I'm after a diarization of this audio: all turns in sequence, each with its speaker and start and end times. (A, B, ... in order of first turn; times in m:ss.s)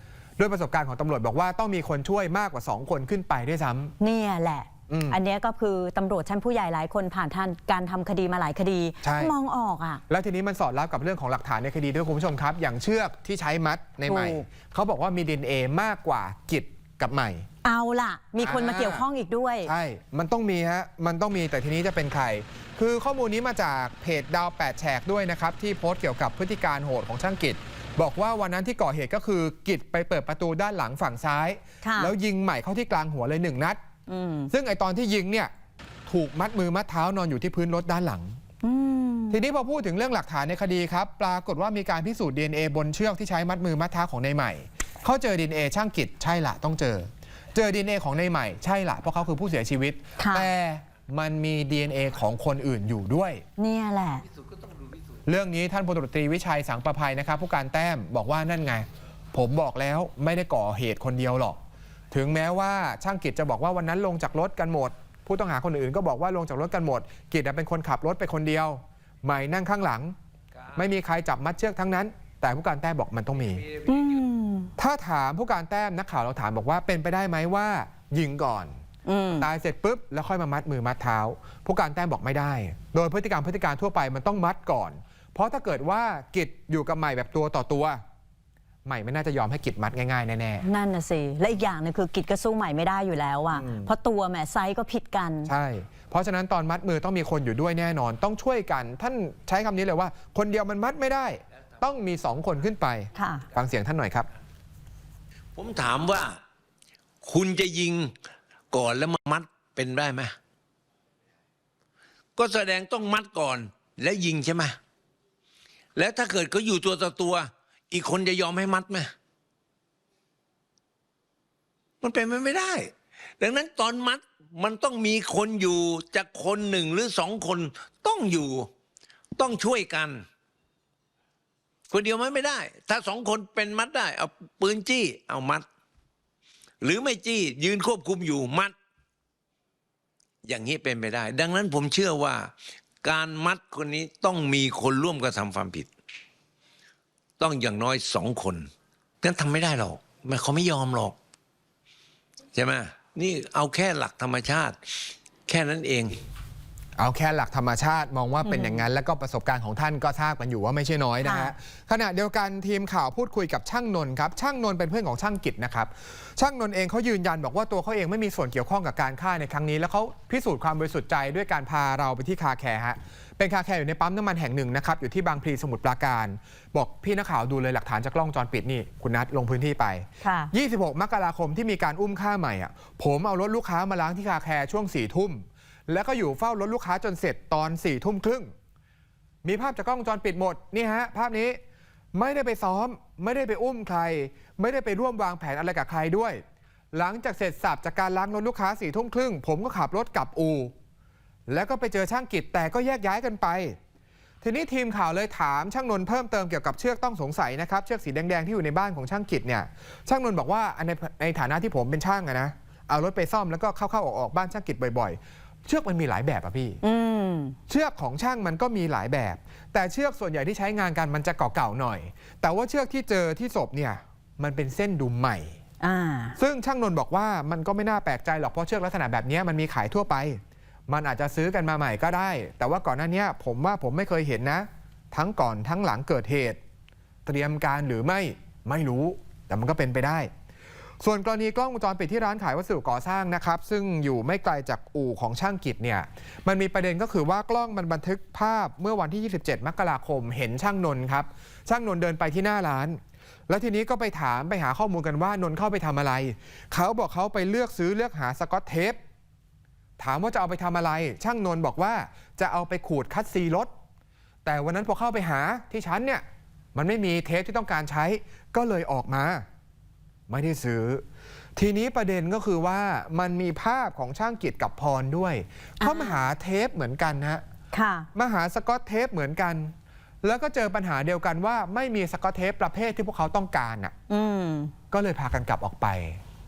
0:00.4-0:03.9 A
0:04.0-0:10.0 B
0:04.9-0:05.2 A
0:09.0-0:09.3 A
0:10.1-0:17.5 A
0:14.0-0:14.4 B
0:17.6-0:19.7 B
0:18.4-0:19.0 A
0:19.6-0:33.8 A
0:31.8-0:32.1 B
0:34.1-0:34.5 B
0:34.5-0:35.5 A
0:36.1-0:38.4 A
0:38.6-0:39.4 B
0:39.3-0:53.4 A
0:50.2-0:50.5 B
0:53.6-0:54.2 B
0:55.2-1:01.6 A
1:02.1-1:10.2 A
1:10.7-1:13.7 A
1:13.8-1:14.7 B
1:14.8-1:18.8 A
1:19.0-1:19.5 B
1:19.4-1:28.0 A
1:28.8-1:30.6 A
1:30.6-1:35.5 B
1:33.5-1:33.9 A
1:35.5-1:44.3 A
1:43.1-1:43.5 B
1:45.5-1:46.4 C
1:47.2-1:48.1 C
1:48.7-1:50.3 C
1:52.4-1:54.8 C
1:56.0-1:59.1 C
2:02.0-2:08.7 C
2:09.4-2:10.2 C
2:11.9-2:15.6 C
2:16.8-2:18.7 C
2:20.4-2:22.5 C
2:23.0-2:25.9 C
2:27.4-2:28.7 C
2:29.2-2:31.2 C
2:32.5-2:36.2 C
2:37.0-3:08.5 A
2:38.4-2:38.8 B
2:41.2-2:41.5 B
3:00.2-3:00.5 B
3:09.4-3:11.6 A
3:12.1-3:16.4 A
3:16.9-3:20.7 A
3:21.5-3:23.8 A
3:24.4-3:36.8 A
3:36.8-3:37.6 B
3:37.7-3:45.6 A
3:45.8-3:46.4 B
3:46.4-3:56.6 A
3:57.2-4:00.3 A
4:01.0-4:19.0 A
4:20.0-4:23.7 A
4:24.4-4:26.2 A
4:26.7-4:29.4 A
4:30.3-4:31.0 A
4:31.6-4:37.4 A
4:35.8-4:36.2 B
4:37.7-4:38.1 B
4:38.1-4:39.7 A
4:40.2-4:43.9 A
4:44.1-4:44.7 B
4:44.9-4:46.2 A